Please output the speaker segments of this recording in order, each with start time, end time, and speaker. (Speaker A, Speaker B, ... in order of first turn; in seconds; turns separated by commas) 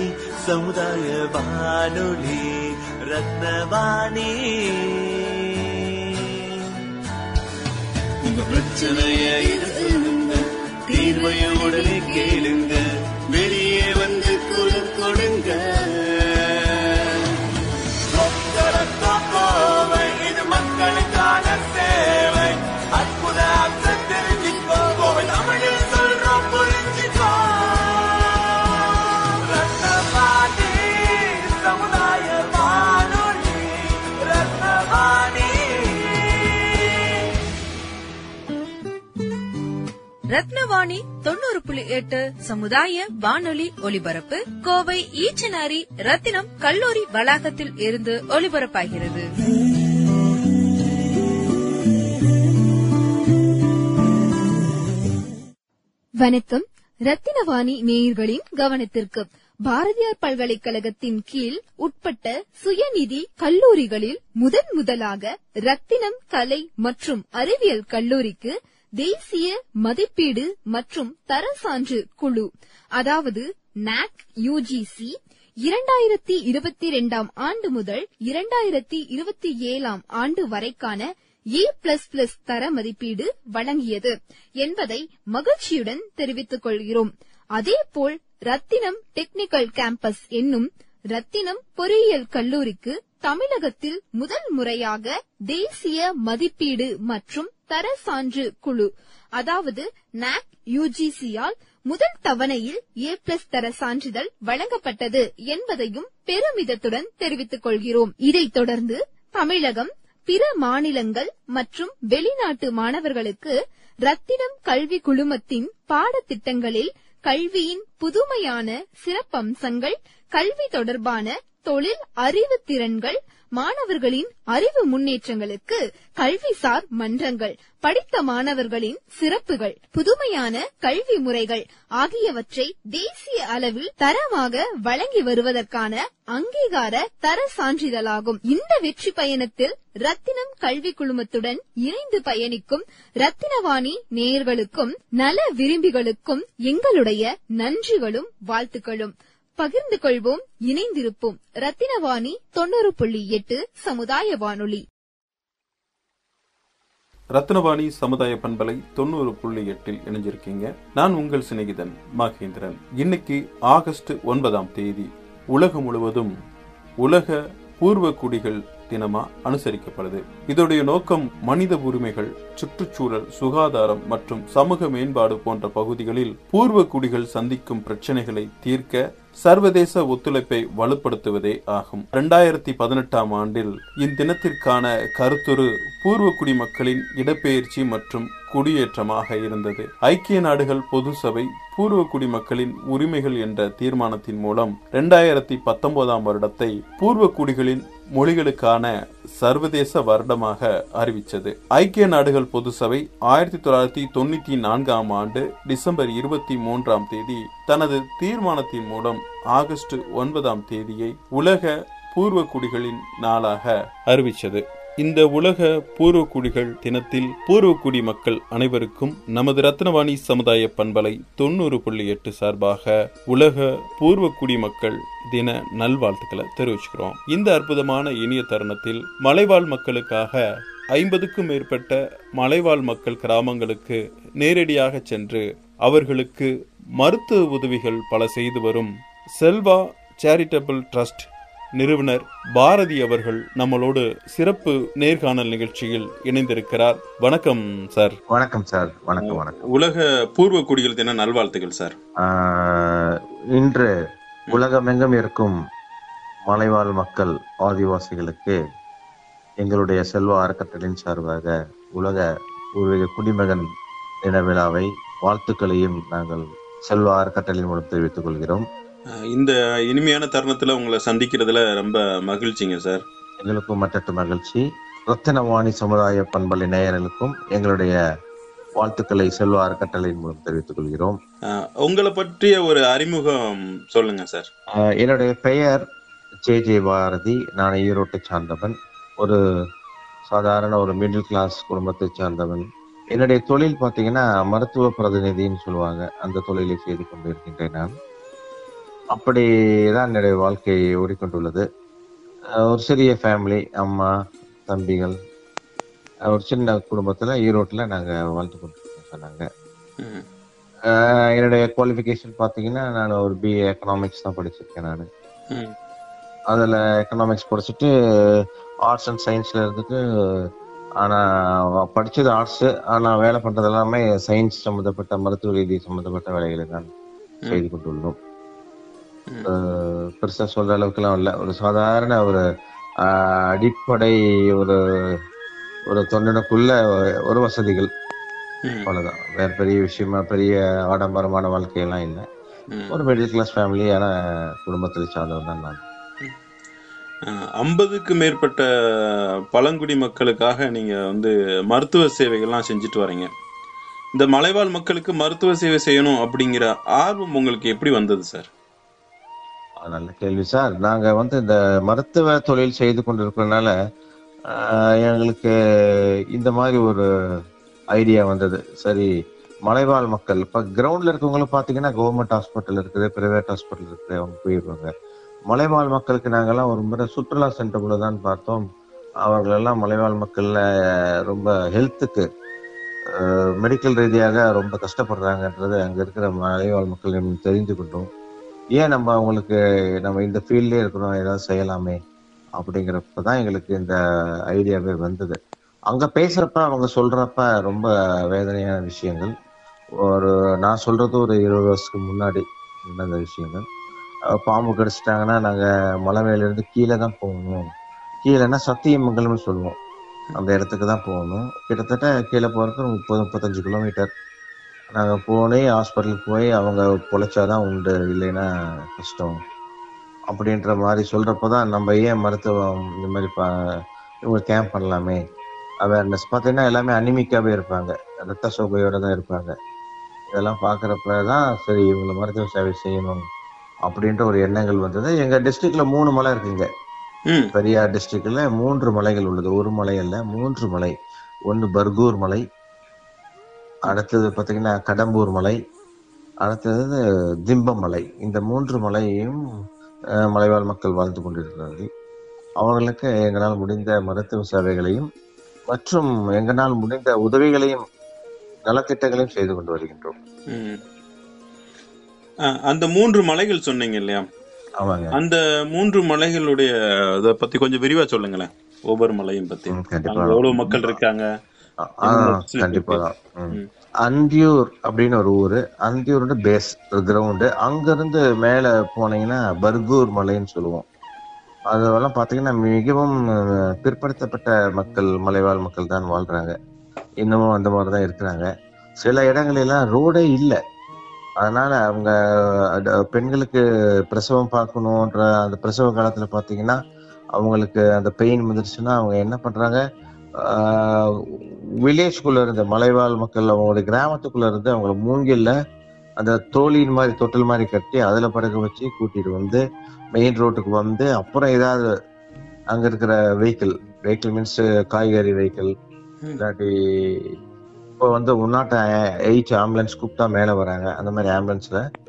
Speaker A: 0.4-6.5, Speaker A: 8.2-17.4, Speaker A: 18.1-37.0, Speaker B: 40.3-49.3, Speaker C: 56.2-113.5, Speaker C: 114.1-154.8, Speaker D: 157.3-166.3, Speaker D: 167.0-230.4, Speaker D: 230.9-248.2, Speaker E: 248.3-249.6, Speaker D: 249.2-252.0, Speaker E: 252.2-253.9, Speaker E: 254.5-255.6, Speaker E: 256.5-258.6, Speaker E: 259.6-262.2, Speaker E: 262.8-263.7, Speaker E: 264.2-268.6, Speaker D: 269.1-273.0, Speaker E: 273.4-278.0, Speaker E: 278.8-281.2, Speaker D: 281.5-284.5, Speaker E: 284.8-285.8, Speaker E: 286.4-289.4, Speaker E: 290.3-297.9, Speaker E: 299.1-301.7, Speaker E: 302.6-304.1, Speaker E: 304.7-305.2, Speaker E: 306.3-309.5, Speaker E: 310.9-315.1, Speaker E: 316.5-320.4, Speaker E: 321.8-326.9, Speaker E: 327.5-328.2, Speaker E: 329.4-332.4, Speaker E: 333.0-334.8, Speaker E: 335.9-336.8, Speaker E: 337.3-337.9, Speaker D: 338.6-338.9, Speaker E: 338.9-342.3, Speaker E: 342.9-344.1, Speaker E: 344.6-345.8, Speaker D: 347.3-353.3, Speaker D: 354.1-358.5, Speaker E: 359.8-363.7, Speaker E: 364.5-365.5, Speaker E: 366.4-367.1, Speaker E: 367.9-369.1, Speaker E: 369.7-374.9, Speaker E: 375.5-378.6, Speaker E: 379.2-380.6, Speaker E: 381.3-382.3, Speaker E: 383.1-388.1, Speaker E: 388.8-392.0, Speaker E: 392.6-394.0, Speaker E: 394.5-395.4, Speaker E: 395.9-399.3, Speaker E: 400.1-403.6, Speaker E: 404.3-407.7, Speaker E: 408.2-409.8, Speaker E: 410.4-414.1, Speaker E: 414.9-419.4, Speaker E: 420.3-423.5, Speaker E: 424.3-425.2, Speaker E: 425.8-429.6, Speaker E: 430.3-433.3, Speaker E: 433.9-436.7, Speaker D: 437.3-437.5, Speaker E: 437.5-440.9, Speaker E: 441.5-442.4, Speaker E: 443.9-445.6, Speaker E: 446.4-449.4, Speaker E: 450.3-451.9, Speaker E: 452.6-455.1, Speaker E: 455.7-457.8, Speaker E: 458.7-460.2, Speaker D: 460.5-460.8, Speaker D: 462.4-464.3, Speaker E: 464.8-465.2, Speaker D: 465.1-471.3, Speaker E: 469.7-471.0, Speaker E: 471.9-480.9, Speaker D: 472.0-473.7, Speaker E: 481.7-483.1, Speaker E: 483.8-486.6, Speaker E: 487.2-488.5, Speaker E: 489.0-490.6, Speaker E: 491.4-496.8, Speaker E: 497.4-499.8, Speaker E: 500.4-505.6, Speaker E: 506.2-509.6, Speaker E: 510.2-511.8, Speaker E: 512.7-515.8, Speaker E: 516.4-517.3, Speaker E: 518.0-521.9